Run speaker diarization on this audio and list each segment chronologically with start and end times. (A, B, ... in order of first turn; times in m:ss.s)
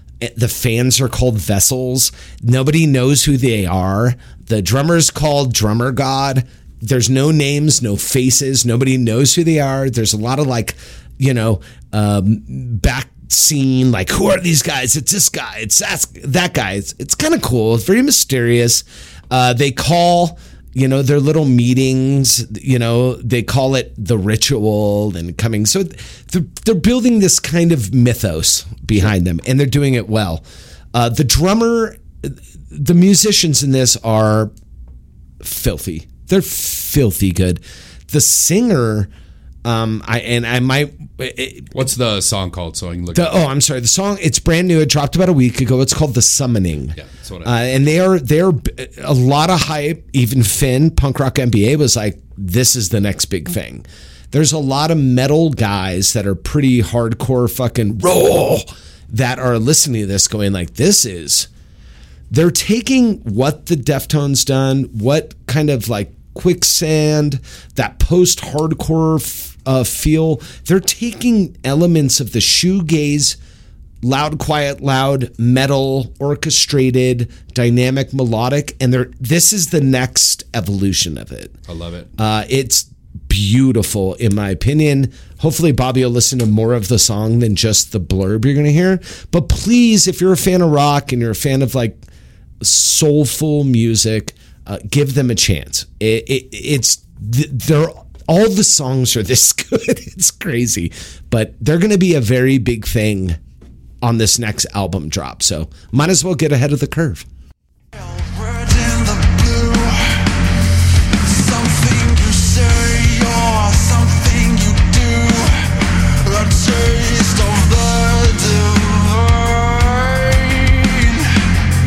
0:00.2-0:34.5 A
0:35.4-0:39.1 A
0:39.6-0:41.7 A
0:41.7-0:43.4 B
0:43.1-1:01.5 A
0:47.0-0:47.5 B
1:02.3-1:13.4 A
1:14.0-1:21.6 A
1:21.7-1:22.1 B
1:22.2-1:32.0 A
1:32.6-1:43.4 A
1:44.0-1:47.2 A
1:47.9-1:50.2 C
1:51.2-2:01.3 C